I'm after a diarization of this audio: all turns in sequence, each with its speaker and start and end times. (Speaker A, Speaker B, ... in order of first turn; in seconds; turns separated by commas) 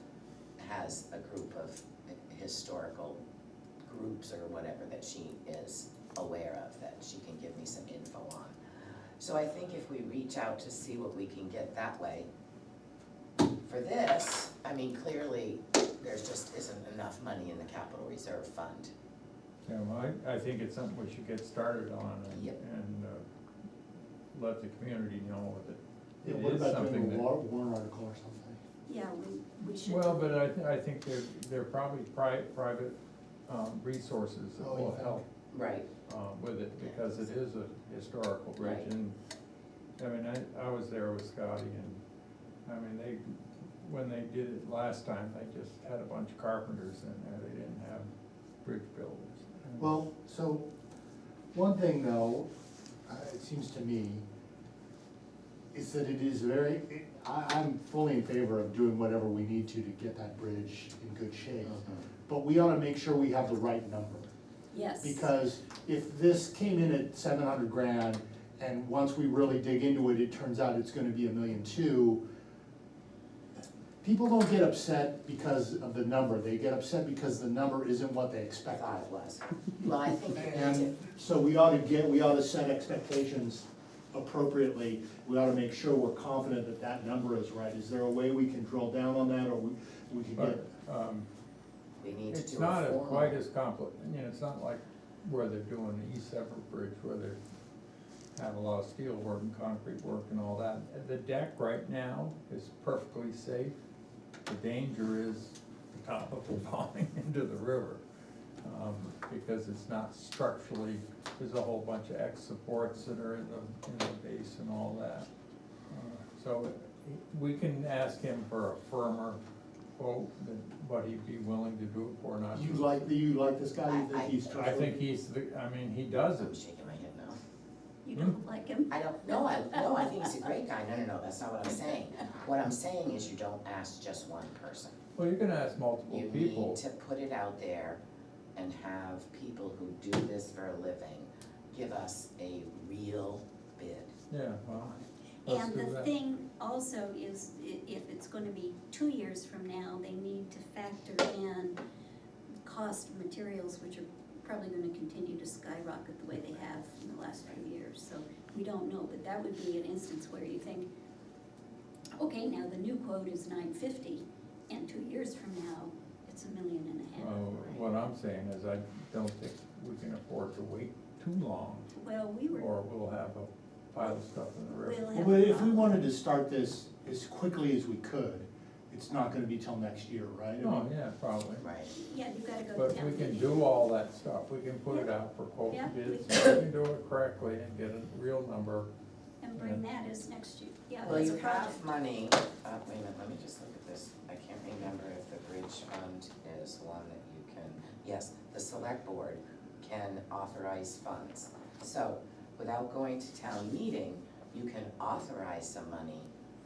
Speaker A: 0.6-3.2, Speaker A: 3.8-8.6, Speaker A: 9.2-12.3, Speaker A: 13.7-18.9, Speaker B: 19.7-23.2, Speaker A: 22.3-22.6, Speaker B: 24.3-27.3, Speaker C: 26.2-28.6, Speaker D: 28.9-30.3, Speaker B: 29.8-35.2, Speaker C: 34.6-35.2, Speaker A: 35.5-35.9, Speaker B: 36.1-39.1, Speaker A: 38.6-38.9, Speaker B: 40.0-42.0, Speaker B: 42.7-48.1, Speaker B: 48.6-49.9, Speaker C: 49.8-50.7, Speaker C: 51.5-52.5, Speaker C: 53.1-54.2, Speaker C: 55.7-64.3, Speaker A: 61.6-62.1, Speaker D: 64.7-65.3, Speaker C: 65.0-72.2, Speaker C: 74.0-79.0, Speaker A: 78.7-81.0, Speaker C: 80.3-90.7, Speaker B: 90.4-91.3, Speaker A: 92.0-93.4, Speaker B: 92.3-97.4, Speaker B: 98.3-103.8, Speaker B: 104.5-108.0, Speaker B: 108.6-115.3, Speaker B: 115.9-119.4, Speaker B: 120.0-123.1, Speaker C: 122.5-125.0, Speaker A: 123.9-124.4, Speaker B: 124.5-126.5, Speaker A: 126.4-127.4, Speaker D: 128.1-130.1, Speaker A: 128.9-135.0, Speaker B: 135.2-136.8, Speaker A: 136.1-138.0, Speaker A: 138.6-144.1, Speaker B: 144.3-144.9, Speaker A: 144.7-145.1, Speaker B: 145.5-146.1, Speaker D: 145.5-151.8, Speaker D: 152.7-160.9, Speaker D: 162.2-167.7, Speaker B: 167.2-171.9, Speaker D: 171.9-172.7, Speaker B: 172.5-175.1, Speaker D: 174.0-176.0, Speaker C: 175.1-180.8, Speaker B: 180.6-181.7, Speaker A: 181.6-181.9, Speaker D: 181.9-183.7, Speaker B: 182.8-188.9, Speaker D: 185.7-186.6, Speaker D: 189.4-191.9, Speaker B: 189.6-189.8, Speaker A: 191.0-206.3